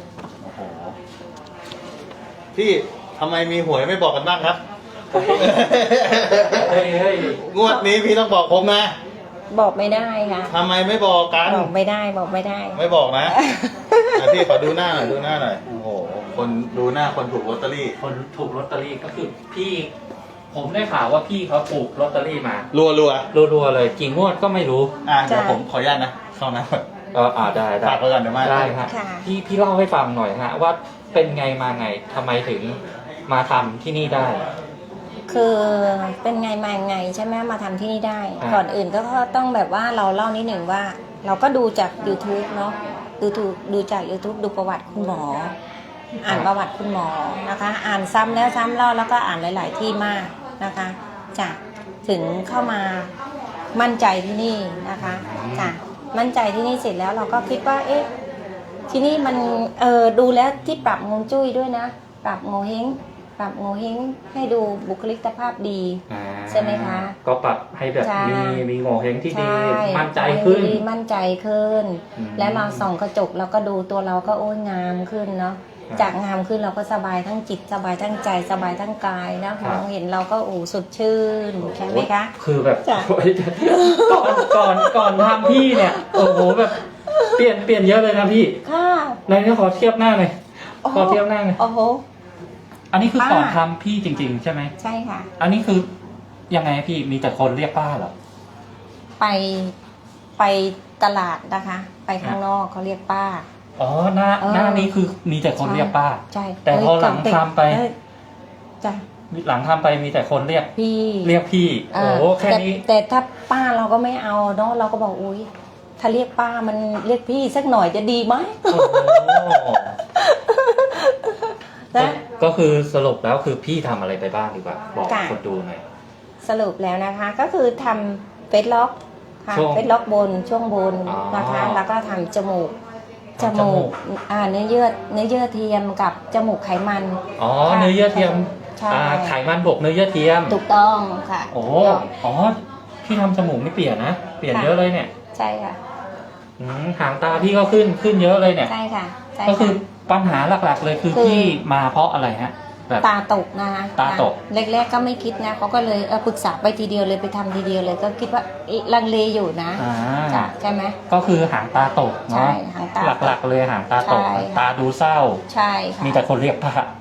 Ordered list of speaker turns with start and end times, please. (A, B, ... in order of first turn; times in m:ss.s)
0:00.4-0:01.0 A
0:02.5-0:04.6 B
0:05.1-0:05.6 A
0:05.1-0:06.8 B
0:06.4-0:07.4 A
0:07.3-0:08.9 B
0:07.6-0:07.9 C
0:09.5-0:10.5 C
0:10.5-0:11.7 B
0:11.4-0:15.0 C
0:12.7-0:13.4 B
0:14.1-0:15.6 B
0:15.6-0:16.3 A
0:16.3-0:18.0 B
0:18.0-0:19.9 A
0:20.5-0:22.7 A
0:22.7-0:23.3 B
0:23.3-0:24.9 A
0:25.0-0:26.8 B
0:25.2-0:25.6 C
0:27.1-0:34.5 A
0:27.8-0:28.8 B
0:28.8-0:29.3 C
0:35.3-0:45.5 C
0:46.2-0:46.5 A
0:46.2-0:53.1 C
0:53.7-0:58.1 C
0:55.0-0:55.7 A
0:58.9-1:07.1 C
1:06.1-1:10.8 A
1:08.0-1:08.6 C
1:09.3-1:22.3 C
1:12.2-1:12.9 A
1:21.6-1:28.6 A
1:22.8-1:23.1 C
1:23.6-1:27.4 C
1:28.6-1:29.2 C
1:29.3-1:31.6 A
1:30.8-1:32.0 C
1:32.9-1:34.7 A
1:33.2-1:33.6 C
1:34.8-1:35.3 C
1:35.4-1:35.9 A
1:36.5-1:38.1 A
1:39.2-1:39.7 C
1:40.4-1:43.4 C
1:43.8-1:47.8 A
1:44.4-1:44.9 C
1:45.6-1:47.9 C
1:49.3-1:50.7 A
1:50.7-1:51.4 C
1:51.2-1:52.8 A
1:51.9-1:59.6 C
1:58.7-2:00.0 A
2:00.1-2:02.2 C
2:01.9-2:05.8 A
2:05.0-2:05.4 C
2:06.4-2:12.7 C
2:09.5-2:09.8 A
2:11.0-2:11.8 A
2:13.4-2:13.9 A
2:13.4-2:19.3 C
2:17.4-2:20.6 A
2:20.5-2:22.1 C
2:21.5-2:25.1 A
2:25.3-2:25.8 C
2:26.6-2:28.7 A
2:28.6-2:29.8 C
2:29.4-2:33.0 A
2:31.1-2:31.6 C
2:33.0-2:41.0 C
2:34.0-2:34.4 A
2:39.8-2:40.5 A
2:41.1-2:45.4 A
2:42.3-2:43.4 C
2:44.0-2:44.7 C
2:45.5-2:46.2 C
2:46.0-2:46.9 A